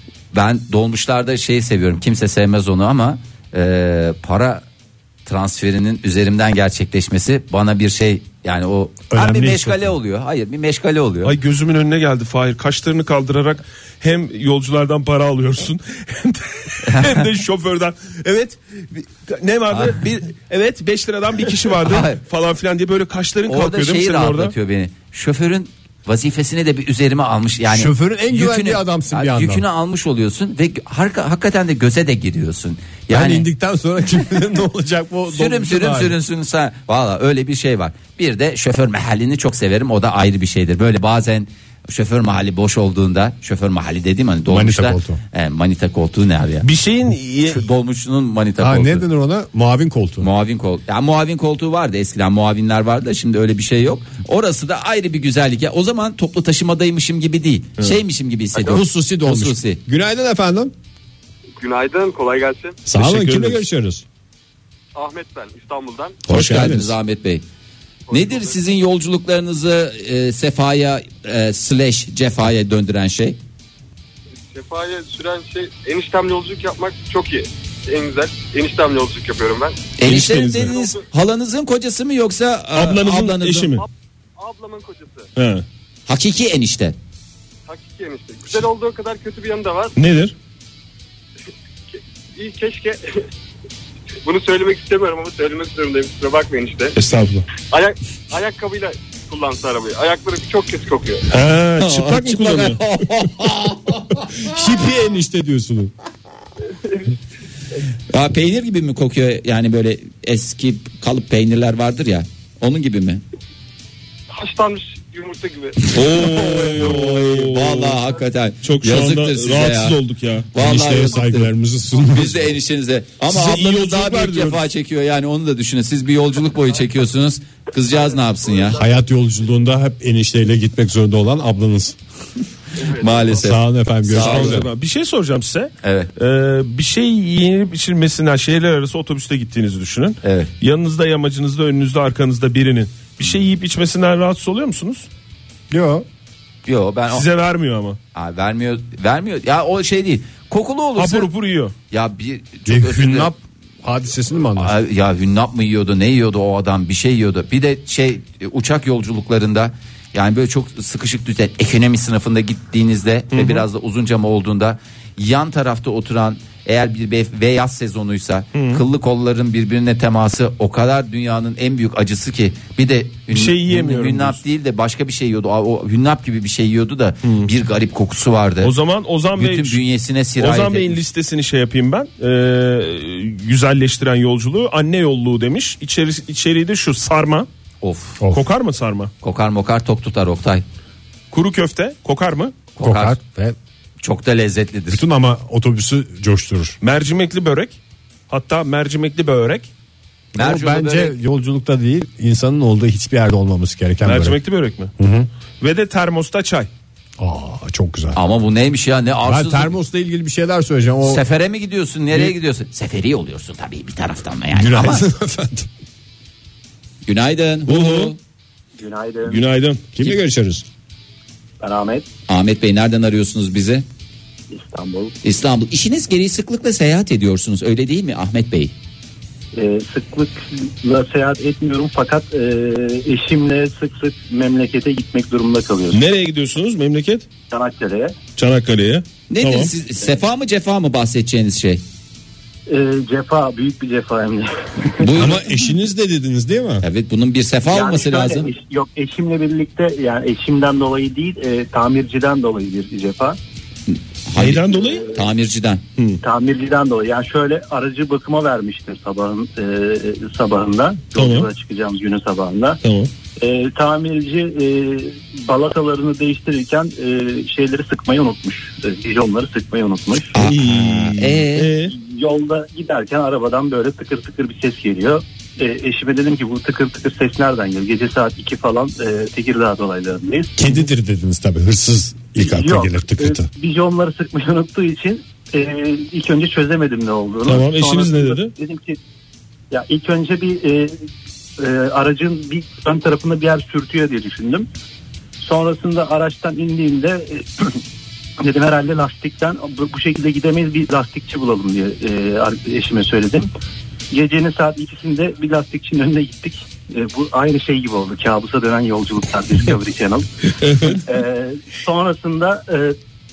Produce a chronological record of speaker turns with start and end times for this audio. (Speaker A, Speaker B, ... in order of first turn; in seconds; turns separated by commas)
Speaker A: 0.3-4.6, Speaker A: 5.2-11.3, Speaker B: 9.1-9.9, Speaker C: 11.2-24.5, Speaker A: 16.8-17.2, Speaker A: 19.7-20.0, Speaker A: 21.8-22.2, Speaker A: 23.5-33.5, Speaker B: 27.7-29.6, Speaker B: 33.1-36.1, Speaker A: 35.3-46.6, Speaker B: 44.5-45.2, Speaker C: 46.6-47.6, Speaker A: 47.5-49.0, Speaker B: 48.6-50.3, Speaker A: 50.2-59.8, Speaker B: 58.6-60.7, Speaker D: 61.6-62.8, Speaker B: 62.9-64.0, Speaker C: 62.9-63.6, Speaker D: 64.9-66.2, Speaker B: 66.3-66.9, Speaker A: 66.3-67.4, Speaker C: 66.3-66.8, Speaker D: 68.1-68.6, Speaker A: 68.1-73.4, Speaker D: 74.3-79.8, Speaker A: 80.0-83.7, Speaker C: 80.0-80.7, Speaker D: 80.6-81.0, Speaker C: 82.7-83.8, Speaker D: 83.8-85.3, Speaker C: 85.3-85.6, Speaker A: 86.1-87.0, Speaker D: 87.7-89.9, Speaker C: 90.0-90.3, Speaker D: 91.9-93.2, Speaker D: 94.2-97.0, Speaker C: 97.0-97.5, Speaker D: 97.7-101.2, Speaker C: 101.3-102.8, Speaker A: 101.8-104.5, Speaker B: 104.3-105.9, Speaker A: 108.1-113.2, Speaker D: 114.3-115.9, Speaker C: 115.9-118.0, Speaker A: 115.9-120.0, Speaker C: 118.6-120.5, Speaker A: 120.5-128.8, Speaker B: 120.5-122.6, Speaker C: 123.3-124.6, Speaker D: 127.9-128.8, Speaker B: 128.7-132.0, Speaker D: 132.8-133.4, Speaker A: 132.9-134.6, Speaker B: 133.3-134.7, Speaker C: 134.1-145.1, Speaker A: 135.8-136.1, Speaker A: 140.2-140.5, Speaker B: 145.7-146.0, Speaker A: 146.7-147.2, Speaker C: 147.1-148.0, Speaker A: 148.1-151.3, Speaker C: 150.9-151.7, Speaker A: 151.9-153.3, Speaker B: 152.7-154.8, Speaker A: 154.6-178.7, Speaker C: 163.3-163.6, Speaker C: 168.5-168.8, Speaker C: 173.3-174.4, Speaker C: 178.6-179.8, Speaker A: 179.3-181.0, Speaker C: 180.4-187.5, Speaker A: 187.8-188.2, Speaker C: 188.3-189.1, Speaker A: 189.2-190.6, Speaker C: 191.3-192.5, Speaker A: 192.8-193.2, Speaker B: 192.8-193.6, Speaker A: 194.0-195.0, Speaker B: 194.9-196.8, Speaker C: 196.8-197.8, Speaker C: 198.3-199.7, Speaker A: 200.3-201.1, Speaker B: 200.3-204.4, Speaker C: 204.0-204.9, Speaker B: 205.0-205.3, Speaker C: 205.6-206.7, Speaker B: 207.2-208.2, Speaker A: 208.1-209.7, Speaker B: 209.2-211.2, Speaker A: 211.0-215.0, Speaker B: 214.5-215.7, Speaker A: 217.1-218.2, Speaker C: 217.7-218.1, Speaker E: 218.8-219.4, Speaker C: 219.2-219.8, Speaker B: 219.9-220.7, Speaker E: 221.6-222.1, Speaker A: 222.3-223.8, Speaker E: 224.5-225.1, Speaker A: 225.2-228.7, Speaker E: 229.5-236.0, Speaker C: 235.9-237.2, Speaker E: 237.5-238.2, Speaker C: 238.4-239.7, Speaker A: 239.3-241.8, Speaker E: 242.7-245.1, Speaker A: 245.0-245.4, Speaker B: 245.1-246.8, Speaker A: 246.8-248.5, Speaker E: 247.7-253.4, Speaker A: 253.9-255.8, Speaker C: 254.3-255.1, Speaker E: 254.7-255.2, Speaker E: 256.2-262.8, Speaker C: 261.1-261.5, Speaker C: 262.8-263.1, Speaker E: 263.4-270.3, Speaker A: 270.3-271.8, Speaker C: 270.4-271.9, Speaker E: 271.9-280.5, Speaker B: 280.6-283.5, Speaker E: 282.4-289.0, Speaker C: 287.4-288.5, Speaker E: 289.7-291.0, Speaker E: 291.6-294.7, Speaker E: 295.4-297.8, Speaker E: 298.4-303.5, Speaker E: 304.1-310.3, Speaker C: 310.6-311.0, Speaker E: 310.8-313.0